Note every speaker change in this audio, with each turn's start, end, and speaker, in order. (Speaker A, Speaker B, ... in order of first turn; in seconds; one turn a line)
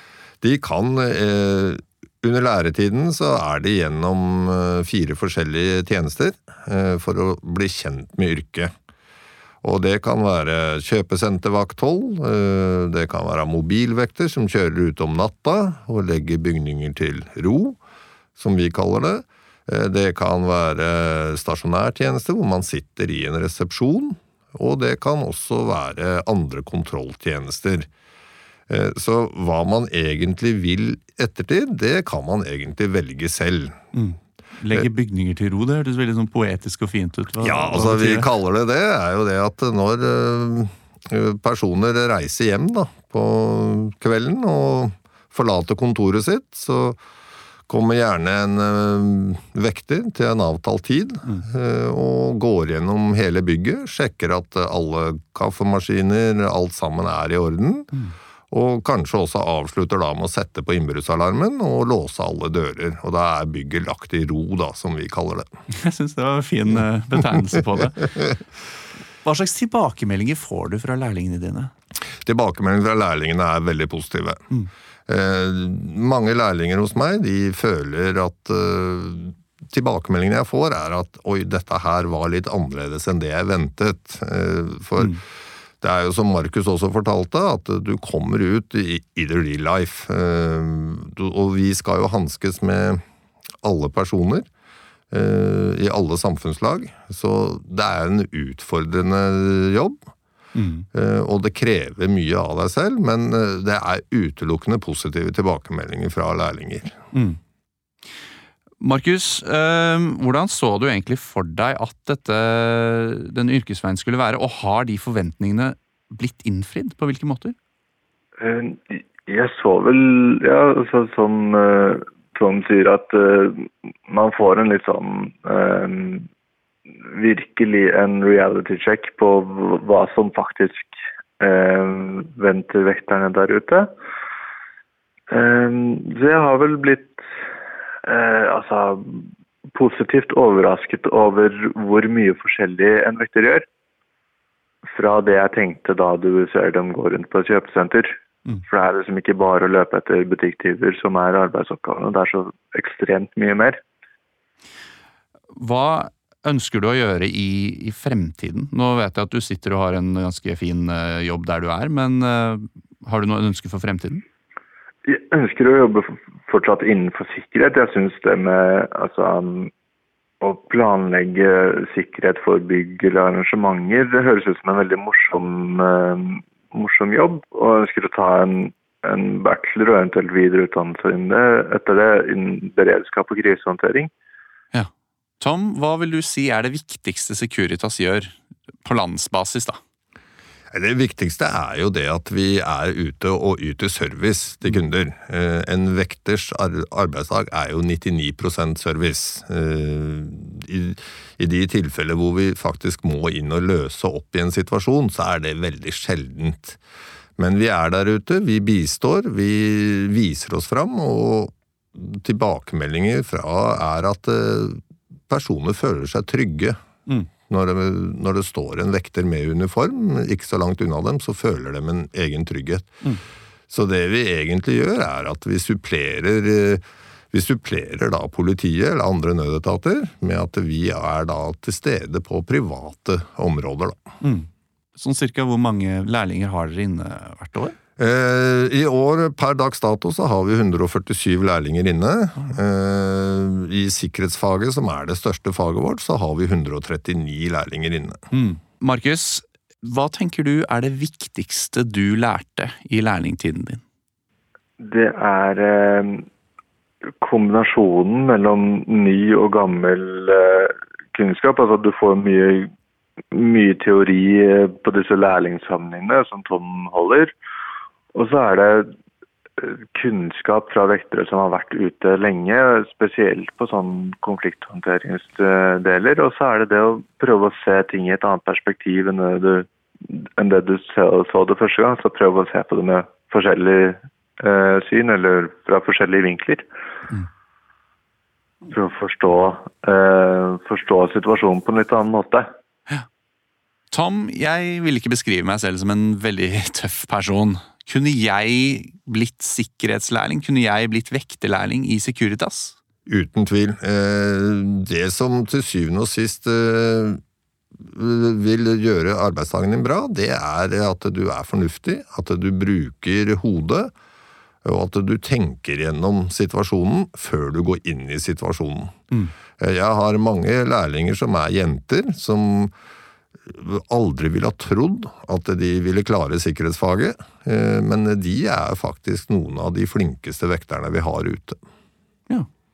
Speaker A: 0.4-8.7
Speaker A: 9.6-17.8
Speaker A: 18.4-27.9
Speaker A: 28.7-33.8
Speaker B: 33.9-38.3
Speaker A: 37.4-47.0
Speaker A: 47.7-57.9
Speaker A: 58.5-65.5
Speaker B: 65.7-68.3
Speaker B: 69.2-71.7
Speaker A: 72.2-74.5
Speaker A: 75.1-85.2
Speaker A: 85.8-93.0
Speaker A: 93.6-94.5
Speaker A: 95.1-100.0
Speaker B: 100.5-100.9
Speaker A: 100.9-107.0
Speaker B: 107.1-107.4
Speaker B: 108.8-117.5
Speaker C: 118.4-126.3
Speaker C: 127.0-133.9
Speaker C: 135.3-137.2
Speaker C: 138.1-143.7
Speaker C: 144.9-153.8
Speaker B: 155.5-164.2
Speaker C: 165.1-169.7
Speaker C: 170.4-184.1
Speaker B: 184.7-189.8
Speaker A: 190.7-206.8
Speaker A: 207.4-216.8
Speaker A: 217.5-222.9
Speaker A: 223.7-234.0
Speaker B: 234.2-237.8
Speaker A: 238.0-248.2
Speaker B: 248.3-253.8
Speaker C: 254.8-256.2
Speaker C: 257.2-262.7
Speaker C: 263.3-267.3
Speaker C: 268.1-268.9
Speaker C: 269.6-286.7
Speaker C: 288.7-292.5
Speaker B: 293.9-302.8
Speaker A: 303.1-307.2
Speaker A: 307.9-313.9
Speaker A: 314.6-319.0
Speaker A: 319.6-322.7
Speaker A: 323.5-331.6